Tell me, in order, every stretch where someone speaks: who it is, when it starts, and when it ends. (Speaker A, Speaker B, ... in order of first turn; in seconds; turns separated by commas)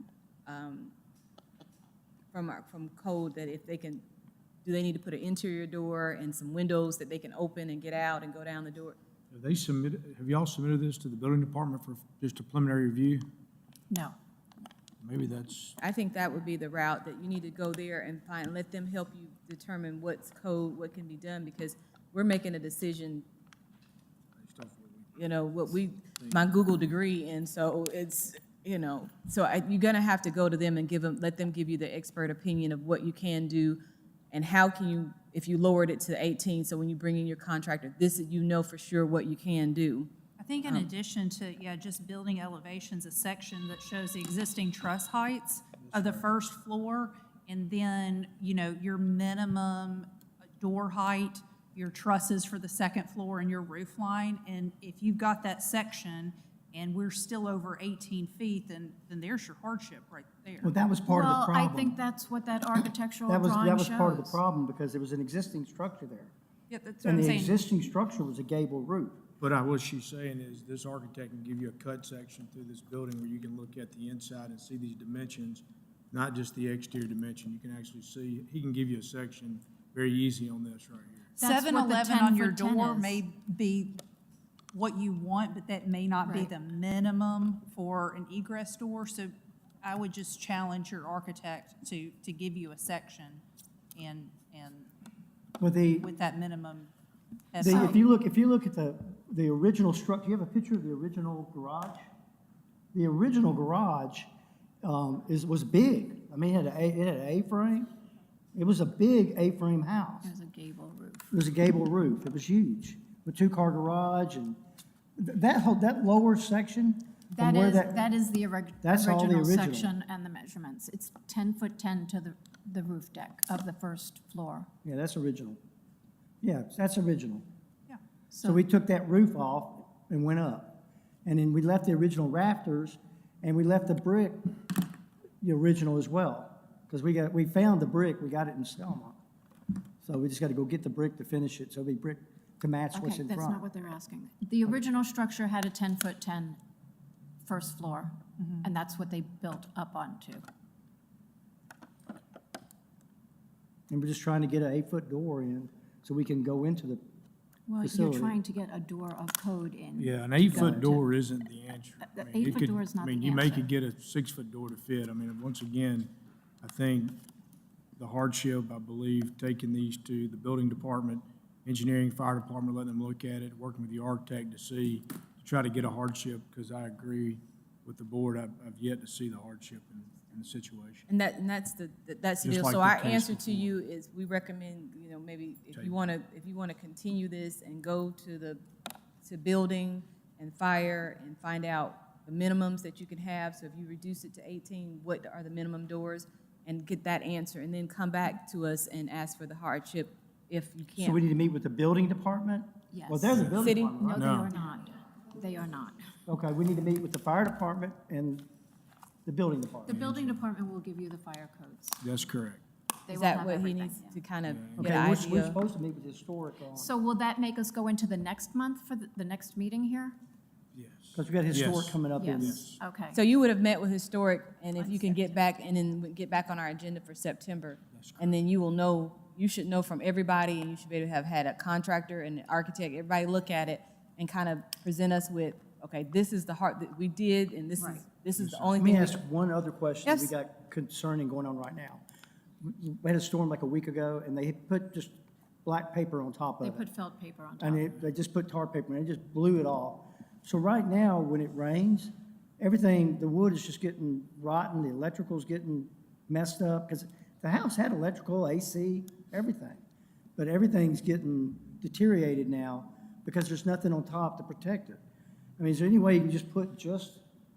Speaker A: 0.5-0.9, Speaker A: 2.3-4.0, Speaker A: 4.6-9.0, Speaker B: 9.3-13.3, Speaker C: 13.9-14.2, Speaker B: 15.0-15.7, Speaker A: 15.8-23.2, Speaker B: 24.4-25.3, Speaker A: 25.1-33.8, Speaker B: 26.1-26.4, Speaker A: 34.3-40.9, Speaker D: 40.4-60.7, Speaker B: 45.8-46.3, Speaker E: 60.6-61.9, Speaker C: 61.1-64.4, Speaker E: 63.3-66.3, Speaker D: 66.7-67.6, Speaker E: 67.0-69.2, Speaker B: 69.4-81.4, Speaker D: 81.4-84.0, Speaker C: 81.4-83.2, Speaker D: 84.7-94.9, Speaker C: 86.2-86.5, Speaker E: 95.6-96.1, Speaker D: 96.0-96.9, Speaker D: 97.5-97.9, Speaker E: 97.6-102.0, Speaker C: 97.6-98.0, Speaker E: 102.9-104.3, Speaker E: 104.8-107.9, Speaker E: 108.5-110.3, Speaker C: 110.2-111.2, Speaker E: 111.3-114.6, Speaker E: 115.2-118.0, Speaker C: 117.3-124.7, Speaker E: 118.8-119.9, Speaker E: 124.8-125.6, Speaker E: 126.4-127.4, Speaker C: 128.3-128.6, Speaker E: 128.4-134.7, Speaker E: 135.4-139.2, Speaker E: 140.0-143.6, Speaker C: 142.9-146.6, Speaker C: 147.4-150.4, Speaker E: 153.9-157.0, Speaker C: 157.7-161.0, Speaker E: 157.8-158.4, Speaker B: 160.0-166.1, Speaker E: 160.5-160.8, Speaker C: 162.1-163.7, Speaker B: 166.6-167.2, Speaker B: 168.0-181.1, Speaker A: 181.1-188.6, Speaker B: 182.4-183.7, Speaker A: 189.2-201.2, Speaker E: 201.0-204.3, Speaker C: 202.9-206.0, Speaker B: 203.3-204.5, Speaker A: 203.6-204.0, Speaker E: 206.3-208.4, Speaker E: 209.2-210.0, Speaker C: 209.8-212.0, Speaker B: 209.9-210.4, Speaker B: 212.0-212.6, Speaker C: 213.1-214.1, Speaker A: 213.1-215.6, Speaker B: 214.4-214.9, Speaker E: 214.8-216.9, Speaker C: 216.7-220.2, Speaker B: 220.7-222.8, Speaker E: 221.1-222.6, Speaker C: 222.2-223.2, Speaker A: 223.1-239.2, Speaker C: 224.8-225.3, Speaker B: 227.9-228.4, Speaker C: 237.8-238.0, Speaker B: 238.3-238.8, Speaker E: 238.8-242.0, Speaker A: 240.0-240.3, Speaker E: 242.6-246.8, Speaker C: 246.6-247.9, Speaker E: 247.6-259.8, Speaker E: 260.4-265.0, Speaker E: 265.6-267.2